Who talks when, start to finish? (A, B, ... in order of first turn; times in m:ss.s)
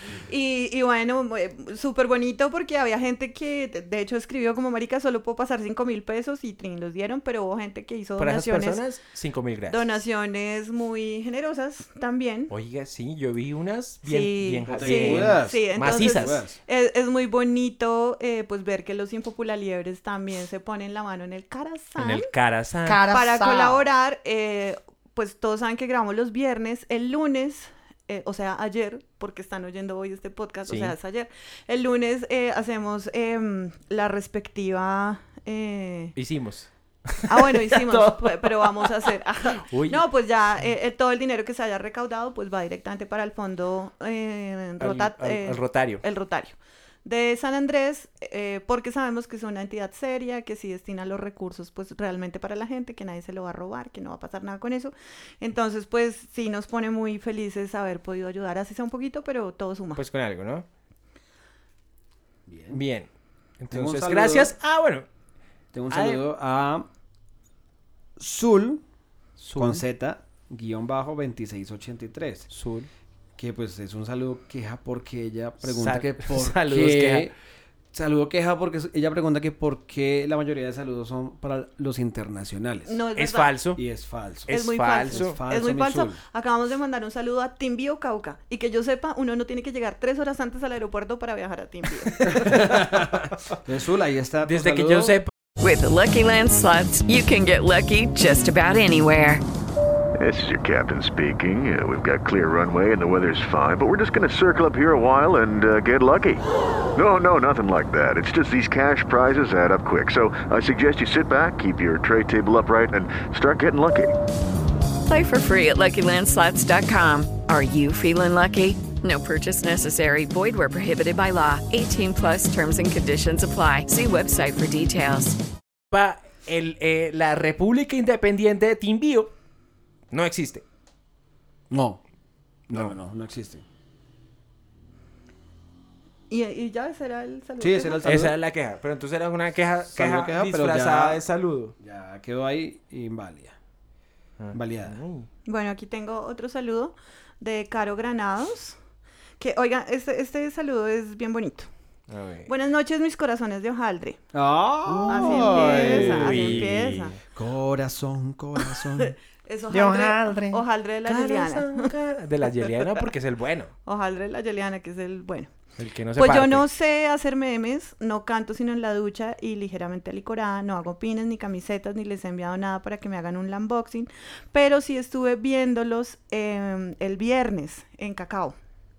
0:00.3-0:08.8 A
0:08.2-0:10.0 B
0:09.7-0:12.5 A
0:12.5-0:16.4 B
0:14.0-0:22.3 A
0:14.7-0:16.6 C
0:22.0-0:23.1 B
0:22.9-0:23.8 C
0:23.0-0:36.2 A
0:30.7-0:31.0 B
0:36.2-0:40.0 B
0:37.3-1:00.0 A
0:44.8-0:46.0 B
1:00.0-1:00.7 B
1:02.5-1:02.8 C
1:02.7-1:03.1 B
1:03.6-1:05.0 B
1:03.7-1:04.5 C
1:05.7-1:06.9 C
1:05.9-1:06.2 B
1:08.2-1:08.8 C
1:09.4-1:09.8 B
1:09.5-1:12.5 C
1:12.5-1:12.9 B
1:13.4-1:17.3 C
1:15.6-1:17.3 B
1:17.9-1:23.0 C
1:22.9-1:23.5 A
1:23.2-1:23.8 B
1:23.8-1:26.2 C
1:24.5-1:25.4 B
1:24.5-1:32.4 A
1:32.2-1:35.2 C
1:34.4-1:35.3 B
1:35.6-1:39.4 D
1:40.2-1:46.4 E
1:47.0-1:54.1 E
1:55.1-2:05.4 D
2:05.9-2:09.3 B
2:10.1-2:10.6 B
2:11.7-2:12.0 C
2:12.7-2:13.6 C
2:16.3-2:18.0 A
2:17.6-2:18.4 C
2:18.0-2:21.7 B
2:19.9-2:21.2 C
2:21.8-2:23.6 C
2:24.4-2:25.3 B
2:24.5-2:25.0 C
2:25.4-2:28.8 A
2:29.4-2:31.7 A
2:32.1-2:32.5 B
2:32.5-2:34.2 A
2:34.3-2:36.8 C
2:35.0-2:37.2 B
2:35.1-2:37.2 A
2:37.4-2:39.1 C
2:39.0-2:41.9 A
2:39.7-2:40.6 C
2:41.0-2:43.7 B
2:43.8-2:45.5 A
2:45.8-2:46.7 B
2:46.2-2:58.6 A